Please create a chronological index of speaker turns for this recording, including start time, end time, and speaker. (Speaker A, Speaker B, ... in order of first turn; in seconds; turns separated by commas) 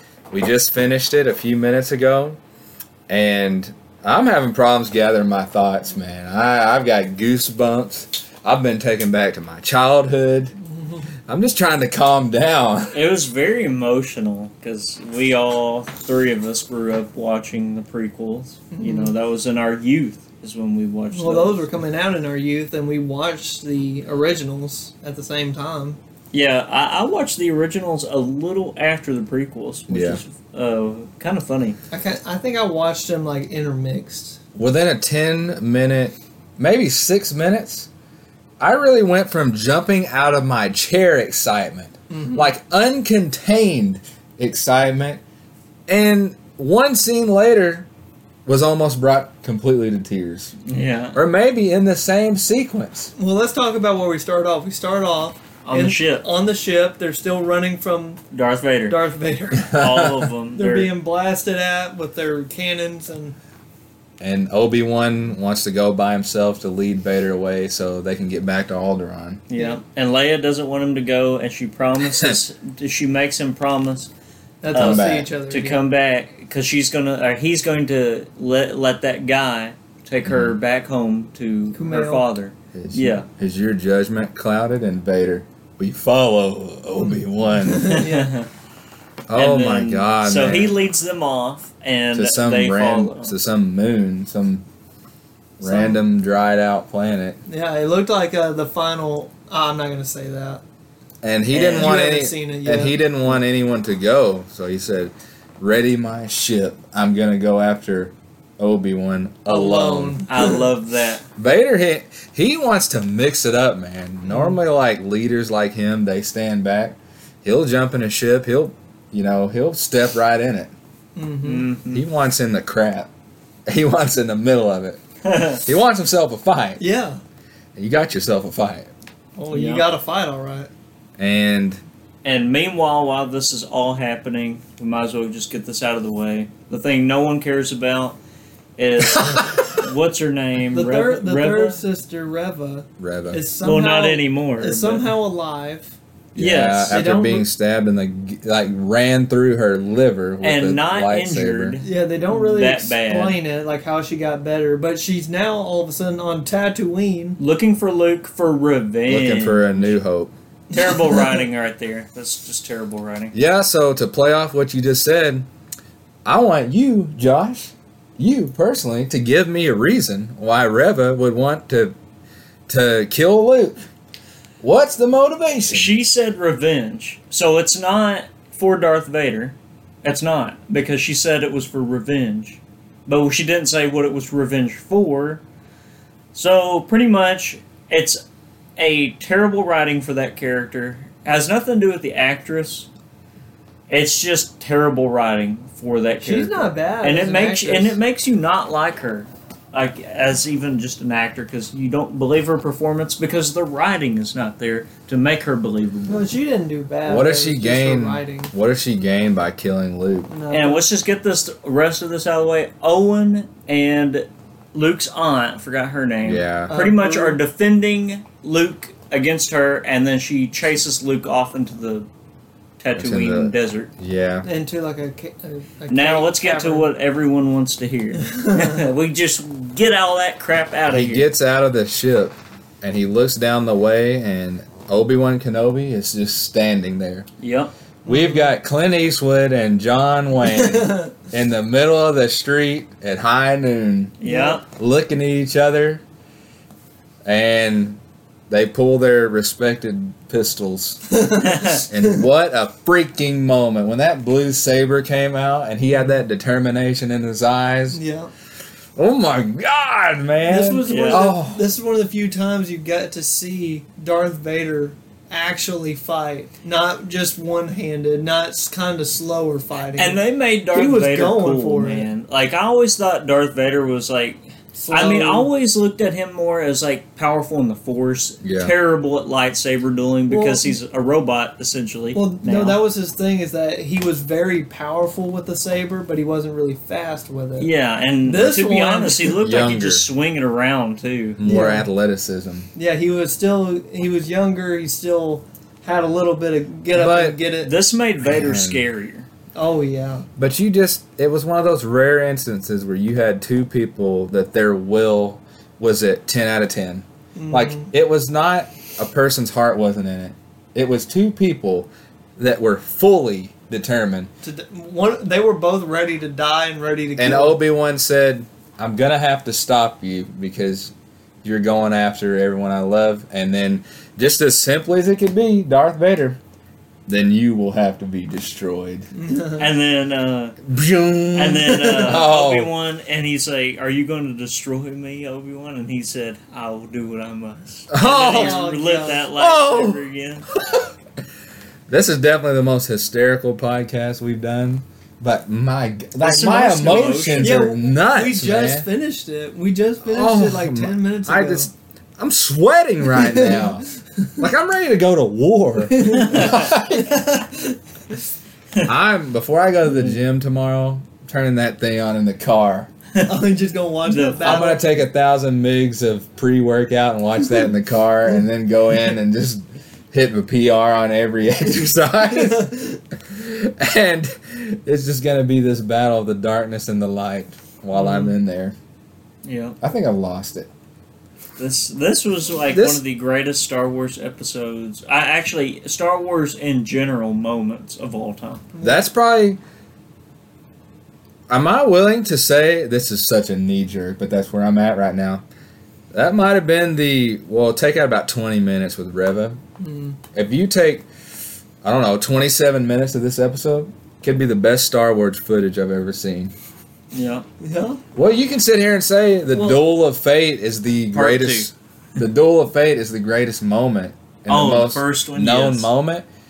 Speaker A: 0.3-2.4, Speaker A: 3.1-10.6, Speaker B: 10.7-11.1, Speaker A: 11.3-13.0, Speaker C: 12.9-21.7, Speaker B: 18.7-19.2, Speaker B: 21.1-26.0, Speaker C: 26.3-31.8, Speaker A: 29.9-30.2, Speaker B: 31.9-34.4, Speaker A: 34.5-37.9, Speaker A: 38.6-45.2, Speaker B: 42.1-42.5, Speaker A: 45.9-47.9, Speaker A: 48.5-50.6, Speaker C: 50.7-51.2, Speaker A: 51.1-53.1, Speaker B: 53.2-58.2, Speaker C: 55.6-56.2, Speaker C: 58.3-59.0, Speaker B: 58.9-59.7, Speaker A: 59.6-60.3, Speaker C: 59.7-60.9, Speaker B: 60.5-63.4, Speaker A: 64.2-69.4, Speaker C: 69.5-74.1, Speaker B: 69.5-69.8, Speaker B: 74.6-75.8, Speaker A: 74.7-75.3, Speaker C: 74.7-83.3, Speaker A: 80.2-80.6, Speaker B: 81.7-82.3, Speaker A: 82.7-88.0, Speaker B: 87.5-88.3, Speaker C: 87.8-88.5, Speaker A: 89.3-90.8, Speaker C: 89.3-93.3, Speaker A: 92.1-94.7, Speaker A: 95.6-97.4, Speaker B: 95.6-96.0, Speaker B: 97.5-100.6, Speaker A: 101.2-110.2, Speaker C: 101.5-101.9, Speaker B: 101.7-103.0, Speaker B: 109.5-110.7, Speaker C: 110.3-111.2, Speaker A: 111.4-120.7, Speaker B: 114.3-114.6, Speaker B: 121.2-121.7, Speaker C: 121.4-122.0, Speaker A: 121.9-123.1, Speaker A: 123.7-125.0, Speaker C: 125.2-125.6, Speaker A: 125.6-126.8, Speaker B: 126.8-127.2, Speaker A: 127.8-128.9, Speaker B: 129.4-130.7, Speaker C: 129.5-129.9, Speaker A: 131.2-131.8, Speaker C: 132.2-138.2, Speaker C: 138.8-141.8, Speaker A: 139.2-139.7, Speaker B: 140.7-145.9, Speaker A: 143.0-143.4, Speaker C: 143.6-145.1, Speaker C: 146.3-147.1, Speaker A: 146.4-151.8, Speaker B: 146.9-147.5, Speaker C: 150.4-153.4, Speaker B: 151.8-157.4, Speaker C: 157.4-159.9, Speaker A: 159.1-160.3, Speaker B: 160.7-161.4, Speaker C: 160.7-163.3, Speaker A: 163.3-165.5, Speaker A: 166.2-172.0, Speaker A: 172.7-173.8, Speaker A: 174.6-176.0, Speaker C: 175.7-185.4, Speaker C: 186.3-188.2, Speaker C: 188.8-192.9, Speaker C: 193.9-206.3, Speaker B: 196.2-198.0, Speaker B: 206.1-208.5, Speaker A: 207.1-210.3, Speaker B: 210.3-210.9, Speaker C: 210.5-222.1, Speaker A: 216.2-216.7, Speaker B: 216.7-217.4, Speaker C: 222.8-223.9, Speaker A: 222.9-224.5, Speaker B: 224.4-226.9, Speaker C: 225.9-231.3, Speaker B: 228.2-228.8, Speaker A: 230.9-237.3, Speaker C: 237.4-237.7, Speaker B: 238.1-238.5, Speaker A: 238.1-244.2, Speaker B: 240.4-241.1, Speaker C: 244.2-244.7, Speaker B: 244.2-244.6, Speaker A: 244.7-246.0, Speaker A: 247.3-248.0, Speaker A: 248.5-251.1, Speaker B: 251.1-252.0, Speaker C: 251.4-251.8, Speaker A: 251.9-258.0, Speaker B: 257.9-258.3, Speaker A: 259.0-261.7, Speaker B: 260.5-272.1, Speaker C: 260.9-261.3, Speaker C: 270.0-282.8, Speaker B: 274.8-275.5, Speaker A: 278.4-278.7, Speaker B: 280.3-280.8, Speaker B: 282.1-287.7, Speaker C: 287.6-291.4, Speaker B: 288.2-289.4, Speaker A: 289.4-290.1, Speaker A: 291.4-292.7, Speaker B: 291.4-291.9, Speaker B: 292.8-297.7, Speaker A: 296.9-297.4, Speaker C: 297.6-299.3, Speaker A: 298.2-298.9, Speaker B: 299.6-300.3, Speaker A: 300.4-314.3, Speaker B: 307.4-307.9, Speaker B: 314.4-317.6, Speaker A: 317.2-326.4, Speaker A: 327.1-329.1, Speaker B: 329.1-329.7, Speaker C: 329.6-330.6, Speaker A: 330.6-332.7, Speaker C: 331.4-340.5, Speaker B: 331.9-332.2, Speaker A: 337.9-338.6, Speaker B: 338.3-339.4, Speaker A: 339.4-340.0, Speaker A: 341.9-348.9, Speaker C: 346.2-347.6, Speaker B: 346.9-351.7, Speaker A: 350.1-357.3, Speaker B: 353.1-354.3, Speaker B: 355.9-357.8, Speaker C: 356.2-356.7, Speaker A: 358.8-362.9, Speaker B: 363.2-364.8, Speaker C: 364.1-364.7, Speaker A: 364.4-378.8, Speaker B: 372.3-373.0, Speaker C: 378.0-378.3, Speaker C: 379.4-379.8, Speaker A: 379.8-380.7, Speaker C: 381.6-388.6, Speaker A: 382.7-383.0, Speaker B: 388.7-389.1, Speaker A: 388.8-389.6, Speaker A: 391.5-395.4, Speaker A: 396.1-399.6, Speaker B: 399.8-400.2, Speaker A: 400.3-401.1, Speaker A: 401.8-406.5, Speaker C: 407.1-407.5, Speaker B: 407.6-408.0, Speaker A: 408.1-416.3, Speaker C: 411.1-411.7, Speaker C: 414.5-415.9